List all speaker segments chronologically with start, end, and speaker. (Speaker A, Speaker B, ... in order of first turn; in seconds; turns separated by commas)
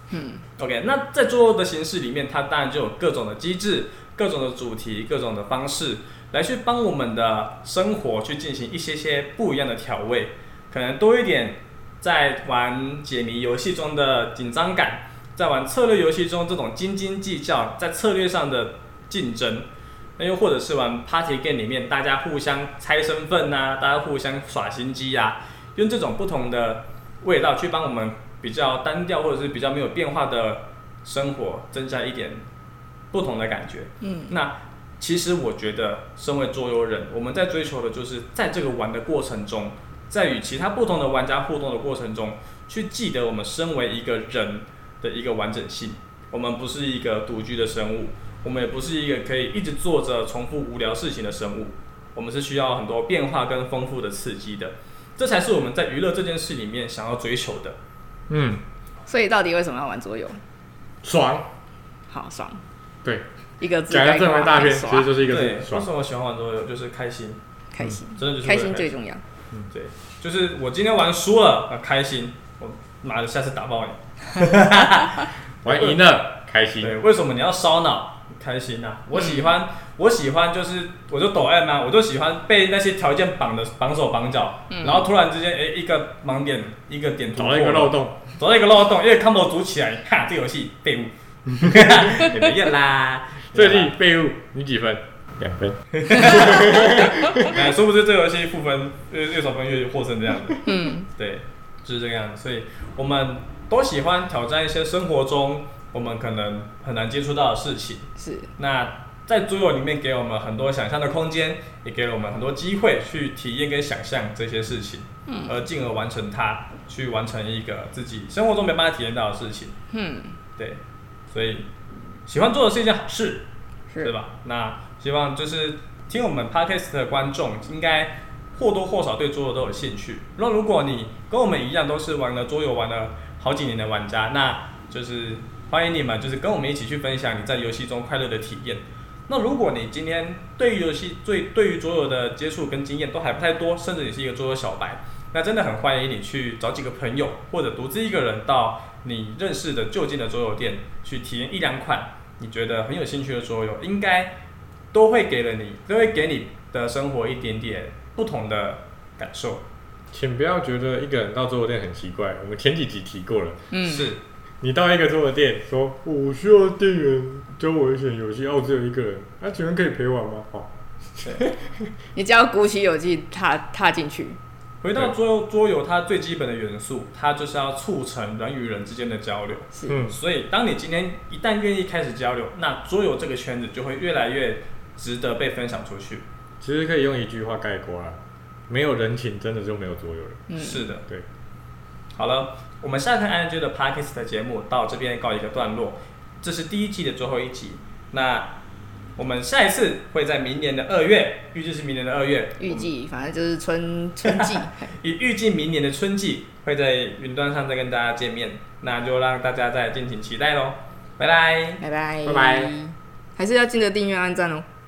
Speaker A: 0.1-0.4, Speaker B: 0.6-19.7, Speaker B: 20.2-32.4, Speaker B: 33.1-57.8, Speaker A: 34.0-34.3, Speaker C: 58.3-58.6, Speaker A: 59.0-60.4, Speaker C: 61.0-61.5, Speaker A: 62.1-62.6, Speaker A: 63.6-65.2, Speaker C: 63.9-65.9, Speaker B: 65.2-67.4, Speaker A: 67.7-69.2, Speaker B: 68.2-68.9, Speaker B: 69.7-76.0, Speaker C: 75.6-77.0, Speaker B: 76.8-93.9, Speaker A: 79.1-79.5, Speaker A: 84.7-85.1, Speaker C: 87.3-88.3, Speaker C: 91.5-92.1, Speaker C: 93.5-97.6, Speaker B: 95.9-119.8, Speaker A: 100.6-101.1, Speaker A: 108.2-108.5, Speaker A: 115.3-115.6, Speaker A: 119.9-120.4, Speaker B: 121.3-121.7, Speaker B: 122.3-123.5, Speaker B: 124.0-154.3, Speaker B: 154.9-159.6, Speaker C: 160.1-163.6, Speaker A: 163.7-164.2, Speaker B: 163.8-164.2, Speaker C: 164.6-171.9, Speaker A: 172.1-174.4, Speaker B: 174.8-186.2, Speaker C: 179.9-180.2, Speaker C: 186.6-190.5, Speaker A: 190.5-190.9, Speaker B: 190.6-191.0, Speaker B: 192.1-198.5, Speaker B: 199.2-202.9, Speaker A: 202.6-204.9, Speaker B: 204.2-211.8, Speaker A: 211.8-214.6, Speaker C: 212.2-212.7